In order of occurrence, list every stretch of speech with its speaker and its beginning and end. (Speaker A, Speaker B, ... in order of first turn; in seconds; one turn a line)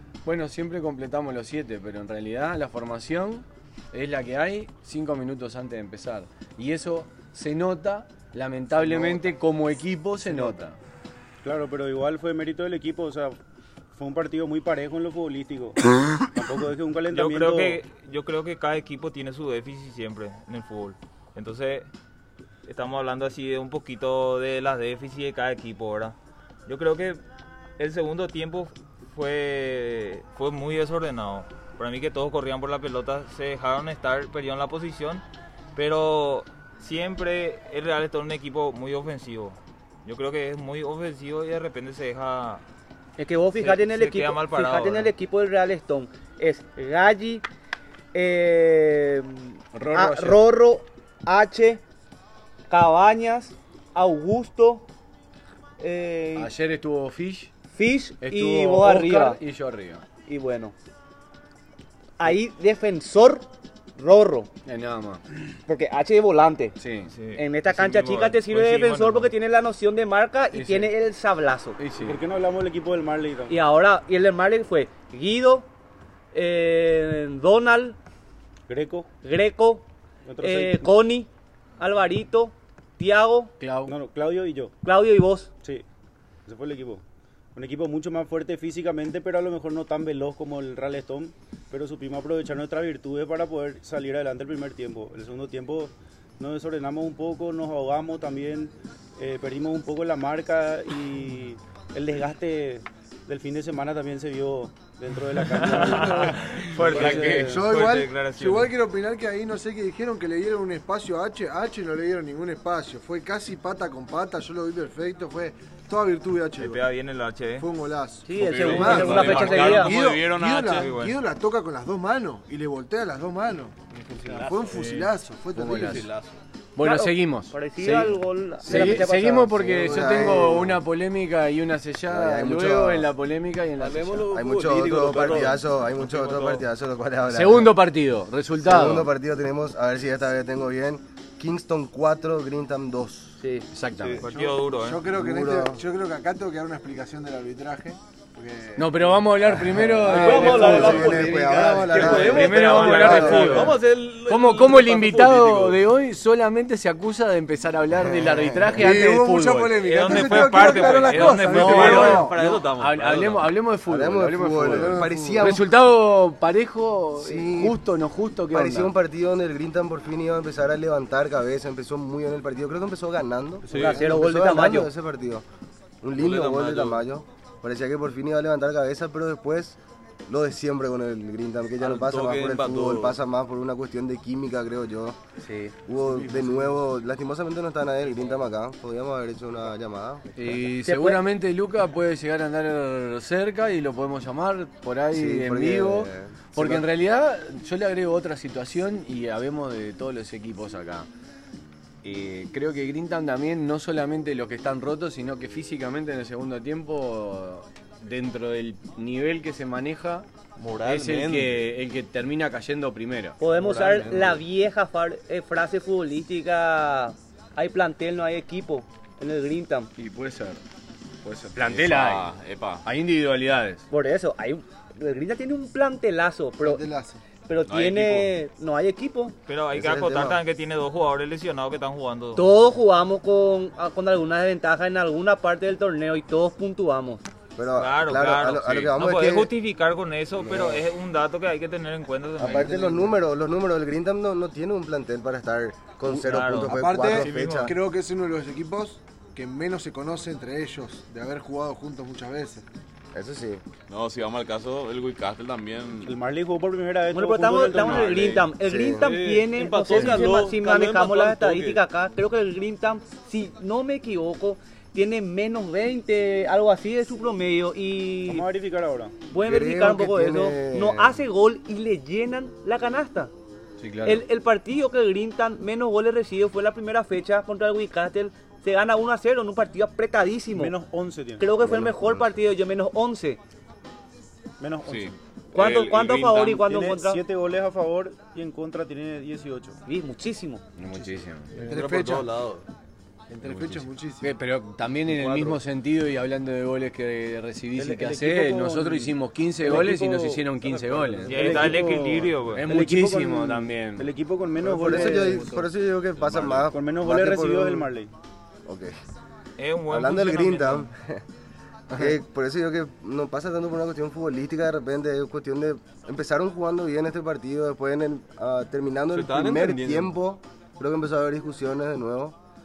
Speaker A: 0.2-10.8
Speaker B: 8.8-9.2
Speaker B: 10.2-10.6
Speaker B: 11.4-13.3
Speaker B: 13.9-17.8
Speaker C: 17.1-21.9
Speaker C: 22.6-27.2
Speaker C: 27.8-35.2
Speaker C: 35.7-42.6
Speaker D: 43.2-47.4
Speaker C: 43.6-45.1
Speaker D: 48.1-51.8
Speaker A: 49.7-50.4
Speaker D: 52.7-54.8
Speaker D: 55.8-56.5
Speaker A: 56.4-57.5
Speaker D: 57.7-59.4
Speaker A: 58.2-60.0
Speaker D: 60.2-60.7
Speaker D: 62.2-64.5
Speaker A: 64.7-65.2
Speaker D: 65.7-66.8
Speaker A: 66.8-67.1
Speaker C: 67.1-69.3
Speaker D: 67.3-71.8
Speaker A: 70.5-70.9
Speaker A: 71.8-72.2
Speaker B: 72.0-73.6
Speaker D: 73.5-75.7
Speaker D: 76.3-78.0
Speaker B: 78.7-79.1
Speaker D: 79.2-79.8
Speaker B: 80.2-80.9
Speaker D: 80.4-83.5
Speaker A: 83.6-83.9
Speaker B: 83.8-84.7
Speaker D: 84.8-85.5
Speaker B: 86.5-87.0
Speaker B: 87.5-107.6
Speaker C: 105.4-108.7
Speaker E: 105.8-116.8
Speaker A: 106.5-107.5
Speaker C: 116.6-117.7
Speaker E: 117.6-123.7
Speaker D: 118.2-120.0
Speaker F: 118.4-120.9
Speaker G: 118.5-119.3
Speaker C: 120.7-121.2
Speaker G: 123.9-124.8
Speaker E: 124.3-126.0
Speaker C: 124.7-125.1
Speaker A: 125.5-126.1
Speaker G: 125.7-126.4
Speaker A: 126.8-134.4
Speaker D: 126.8-129.7
Speaker H: 128.7-130.8
Speaker H: 132.1-133.1
Speaker G: 133.8-135.7
Speaker H: 134.3-137.8
Speaker C: 135.9-136.6
Speaker A: 137.3-139.1
Speaker H: 138.6-143.4
Speaker A: 143.7-144.3
Speaker G: 143.9-144.5
Speaker C: 144.2-145.1
Speaker E: 144.3-149.2
Speaker H: 145.1-145.8
Speaker A: 148.8-160.4
Speaker H: 149.8-153.5
Speaker G: 150.0-155.8
Speaker E: 150.1-151.9
Speaker C: 152.3-153.8
Speaker H: 158.1-158.8
Speaker E: 158.7-162.3
Speaker C: 159.8-162.3
Speaker A: 161.0-168.9
Speaker G: 161.6-163.5
Speaker F: 162.3-162.8
Speaker H: 163.9-165.7
Speaker E: 164.6-165.4
Speaker H: 167.2-167.8
Speaker H: 168.5-175.4
Speaker G: 173.7-174.0
Speaker D: 173.7-174.9
Speaker H: 176.0-185.2
Speaker G: 176.2-177.0
Speaker G: 181.8-183.2
Speaker A: 185.4-185.7
Speaker H: 185.9-190.6
Speaker E: 186.0-186.8
Speaker A: 190.3-201.1
Speaker D: 190.8-191.2
Speaker H: 195.1-196.8
Speaker A: 202.0-210.2
Speaker G: 210.6-211.7
Speaker A: 210.8-213.4
Speaker D: 213.4-219.9
Speaker G: 213.6-214.3
Speaker A: 220.0-220.6
Speaker A: 221.2-222.3
Speaker F: 221.6-222.8
Speaker A: 222.8-223.8
Speaker D: 223.9-226.8
Speaker E: 226.6-227.2
Speaker D: 227.4-229.3
Speaker F: 227.7-228.3
Speaker C: 229.5-232.5
Speaker H: 229.7-230.4
Speaker D: 232.3-237.2
Speaker H: 237.6-239.5
Speaker C: 237.8-243.0
Speaker H: 240.4-240.8
Speaker H: 242.4-247.7
Speaker C: 246.1-247.7
Speaker E: 246.6-252.6
Speaker H: 253.1-253.6
Speaker F: 253.9-256.2
Speaker B: 256.0-258.2
Speaker D: 257.1-268.4
Speaker F: 257.8-258.5
Speaker H: 258.6-259.1
Speaker G: 259.0-261.8
Speaker B: 268.3-269.1
Speaker D: 269.3-273.3
Speaker H: 269.4-271.2
Speaker A: 273.8-274.2
Speaker D: 274.0-280.7
Speaker B: 280.5-281.5
Speaker D: 281.4-283.4
Speaker H: 281.6-282.3
Speaker B: 284.6-285.1
Speaker F: 284.8-286.6
Speaker D: 285.5-287.2
Speaker B: 286.6-289.8
Speaker D: 289.9-290.6
Speaker A: 290.8-291.5
Speaker E: 291.6-292.3
Speaker G: 291.6-292.6
Speaker E: 293.3-294.3
Speaker A: 293.4-301.9
Speaker G: 295.1-295.6
Speaker B: 297.8-300.4
Speaker G: 300.7-301.2
Speaker B: 301.2-305.6
Speaker C: 301.3-302.7
Speaker A: 302.5-304.1
Speaker H: 304.6-307.9
Speaker B: 306.4-308.1
Speaker H: 308.6-309.0
Speaker C: 309.6-310.9
Speaker H: 309.9-311.2
Speaker H: 311.9-322.4
Speaker G: 319.1-320.1